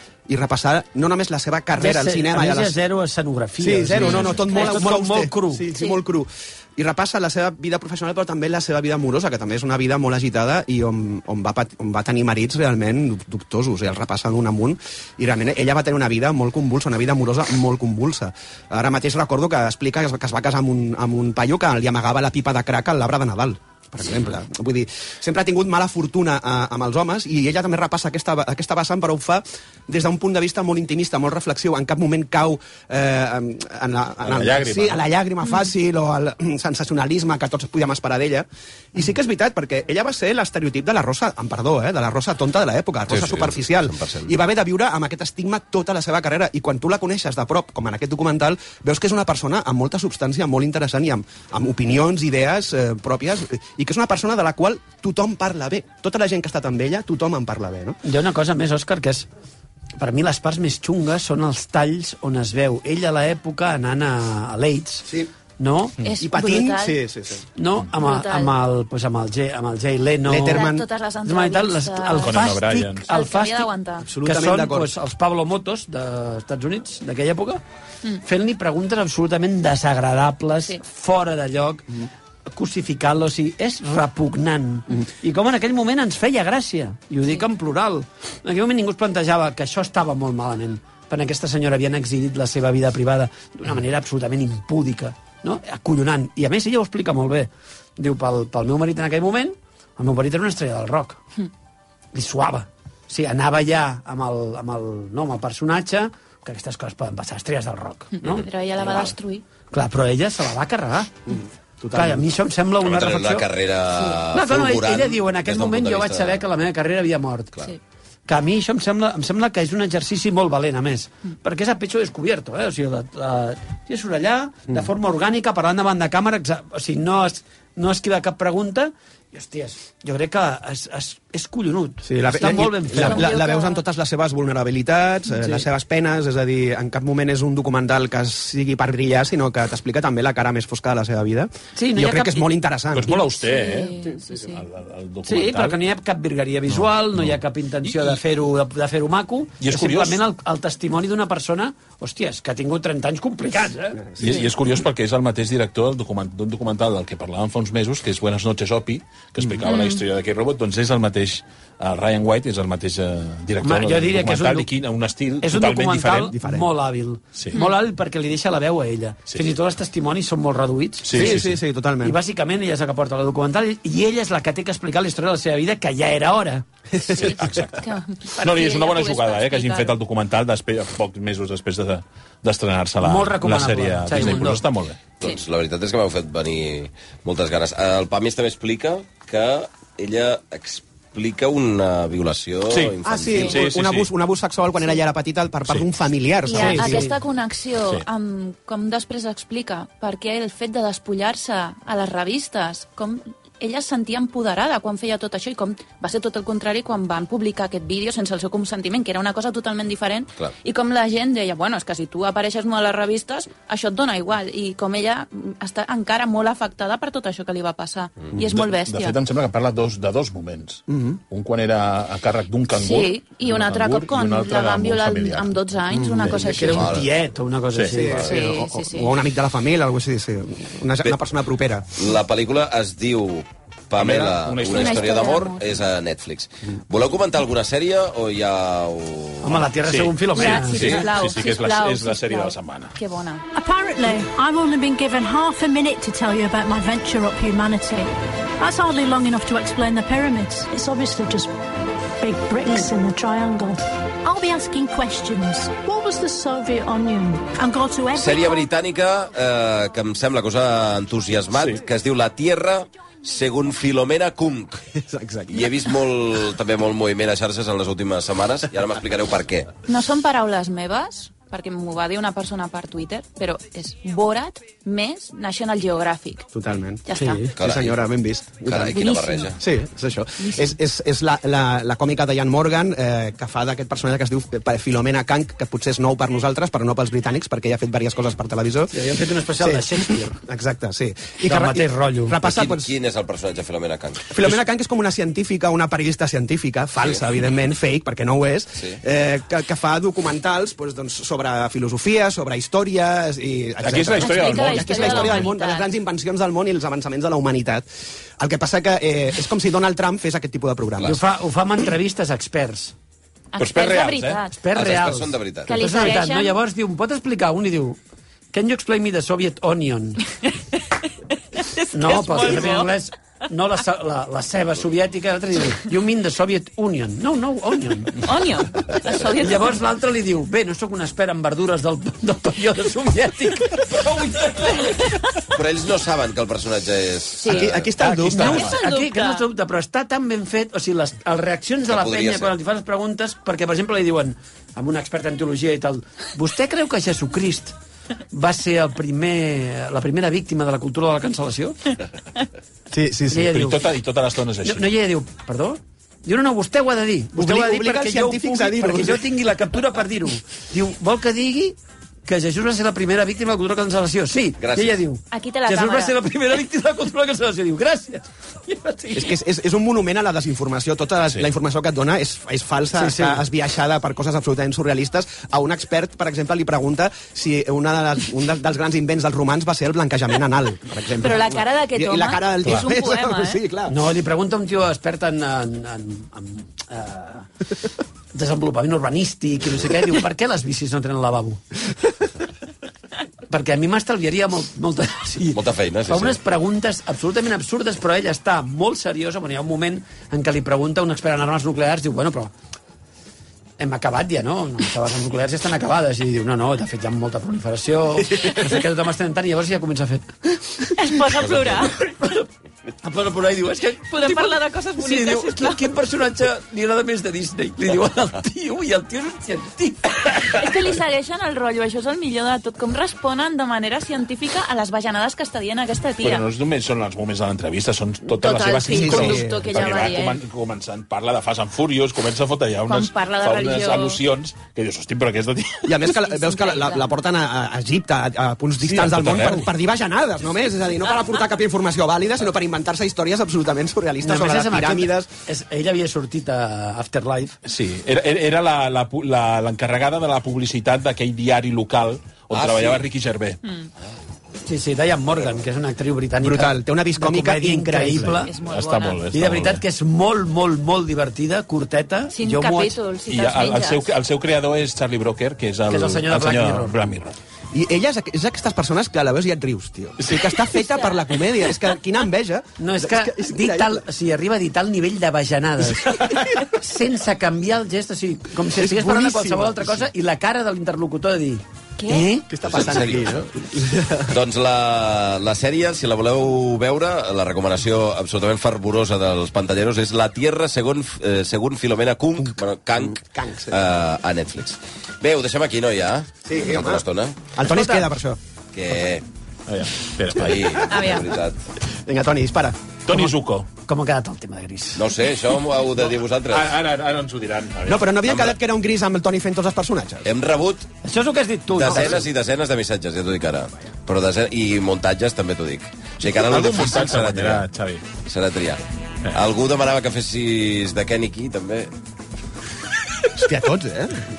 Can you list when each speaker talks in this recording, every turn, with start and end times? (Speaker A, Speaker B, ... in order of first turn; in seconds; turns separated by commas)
Speaker A: 0.3-2.8, Speaker B: 1.8-5.7, Speaker A: 3.6-58.0, Speaker C: 4.0-4.7, Speaker C: 5.7-6.0, Speaker D: 34.2-35.0, Speaker E: 43.1-44.3, Speaker B: 58.0-59.3, Speaker B: 60.0-66.0, Speaker C: 66.0-67.0, Speaker A: 66.2-67.4, Speaker B: 67.5-70.7, Speaker C: 68.0-68.5, Speaker A: 70.2-70.8, Speaker C: 70.5-72.4, Speaker B: 71.2-77.6, Speaker D: 72.2-73.0, Speaker C: 73.1-74.1, Speaker A: 74.0-74.9, Speaker B: 78.2-81.9, Speaker B: 82.5-101.2, Speaker B: 102.1-108.2, Speaker C: 108.2-109.4, Speaker B: 108.8-109.1, Speaker B: 109.7-111.2, Speaker A: 111.2-112.2, Speaker B: 111.9-113.5, Speaker E: 112.8-116.4, Speaker B: 114.3-117.5, Speaker B: 118.3-133.3, Speaker A: 132.0-143.2, Speaker C: 132.4-133.8, Speaker B: 141.8-142.5, Speaker D: 142.9-145.8, Speaker C: 143.4-144.6, Speaker B: 145.2-154.0, Speaker D: 146.7-147.3, Speaker D: 147.8-148.2, Speaker D: 149.6-150.2, Speaker D: 154.2-166.3, Speaker C: 159.6-160.0, Speaker B: 163.6-164.7, Speaker B: 165.4-171.4, Speaker A: 166.4-166.7, Speaker D: 167.3-167.6, Speaker D: 171.0-171.6, Speaker A: 171.1-172.2, Speaker B: 172.0-176.7, Speaker A: 176.9-177.4, Speaker C: 177.1-180.0, Speaker D: 177.2-185.0, Speaker B: 183.0-184.6, Speaker E: 185.2-193.6, Speaker D: 192.7-194.1, Speaker A: 193.0-197.1, Speaker C: 196.5-219.2, Speaker B: 196.5-197.1, Speaker D: 218.4-225.6, Speaker A: 220.9-221.2, Speaker C: 222.8-226.9, Speaker A: 225.9-226.4, Speaker B: 226.3-228.4, Speaker E: 226.4-227.1, Speaker D: 227.7-228.1, Speaker A: 227.9-231.9, Speaker C: 228.2-229.2, Speaker E: 231.9-239.7, Speaker D: 233.9-235.4, Speaker C: 234.6-235.7, Speaker B: 239.4-241.0, Speaker D: 239.8-242.9, Speaker C: 240.3-243.4, Speaker F: 243.5-251.5, Speaker F: 252.2-258.7, Speaker E: 258.1-264.8, Speaker D: 261.5-261.8, Speaker A: 264.9-265.8, Speaker E: 265.5-269.7, Speaker C: 269.9-276.5, Speaker A: 276.5-292.9, Speaker C: 277.1-277.5, Speaker B: 277.1-277.5, Speaker E: 277.6-278.0, Speaker E: 278.6-279.6, Speaker C: 278.9-279.6, Speaker C: 280.4-280.8, Speaker B: 288.9-290.4, Speaker B: 291.4-292.4, Speaker E: 292.4-294.4, Speaker A: 294.3-307.9, Speaker D: 303.8-305.5, Speaker C: 304.2-305.9, Speaker A: 308.4-311.2, Speaker B: 311.0-312.9, Speaker C: 313.5-314.6, Speaker D: 313.6-314.4, Speaker B: 314.6-318.0, Speaker E: 314.7-315.8, Speaker C: 315.6-316.5, Speaker B: 318.5-320.2, Speaker C: 321.6-322.9, Speaker B: 321.9-328.2, Speaker C: 328.2-329.8, Speaker B: 329.1-335.0, Speaker E: 335.5-337.9, Speaker C: 337.4-337.7, Speaker D: 337.5-338.8, Speaker A: 337.5-338.7, Speaker B: 338.3-347.7, Speaker C: 338.3-339.4, Speaker E: 341.9-342.5, Speaker B: 348.3-351.9, Speaker A: 352.9-353.4, Speaker B: 353.3-353.8, Speaker D: 353.3-354.9, Speaker B: 354.6-369.3, Speaker A: 357.3-359.2, Speaker E: 364.6-365.0, Speaker C: 365.3-366.2, Speaker A: 369.1-384.0, Speaker B: 372.9-373.4, Speaker C: 381.2-383.6, Speaker B: 383.9-387.5, Speaker B: 388.3-391.6, Speaker B: 393.5-402.5, Speaker E: 395.5-396.4, Speaker B: 403.8-410.9, Speaker C: 410.9-411.9, Speaker B: 412.0-412.4, Speaker B: 413.0-420.8, Speaker C: 414.1-415.8, Speaker C: 420.5-426.5, Speaker D: 426.2-435.9, Speaker C: 428.3-430.4, Speaker A: 428.9-429.8, Speaker C: 432.9-434.2, Speaker A: 435.8-445.3, Speaker C: 436.1-437.1, Speaker D: 438.8-439.7, Speaker B: 444.2-447.6, Speaker D: 447.6-453.6, Speaker E: 452.5-453.0, Speaker B: 454.6-458.5, Speaker A: 456.4-458.4, Speaker C: 458.4-459.2, Speaker D: 458.6-459.8, Speaker B: 459.3-463.0, Speaker C: 462.3-464.0, Speaker D: 463.3-467.3, Speaker B: 465.9-467.0, Speaker A: 467.7-474.0, Speaker C: 470.7-471.2, Speaker B: 472.8-482.5, Speaker A: 478.7-480.1, Speaker C: 482.0-482.3, Speaker A: 482.5-484.4, Speaker E: 482.6-483.5, Speaker E: 484.3-497.4, Speaker A: 492.4-493.8, Speaker A: 496.4-498.4, Speaker B: 497.6-498.0, Speaker E: 498.7-499.2, Speaker D: 499.7-500.9, Speaker E: 500.4-501.6, Speaker C: 500.9-501.2, Speaker A: 502.0-502.8, Speaker D: 503.1-503.7, Speaker B: 503.1-505.0, Speaker E: 505.0-506.8, Speaker D: 506.5-508.1, Speaker A: 507.9-510.3, Speaker E: 508.2-508.6, Speaker E: 510.2-510.9, Speaker B: 511.0-512.2, Speaker E: 511.7-517.7, Speaker D: 516.3-518.0, Speaker E: 518.2-521.9, Speaker A: 523.3-524.3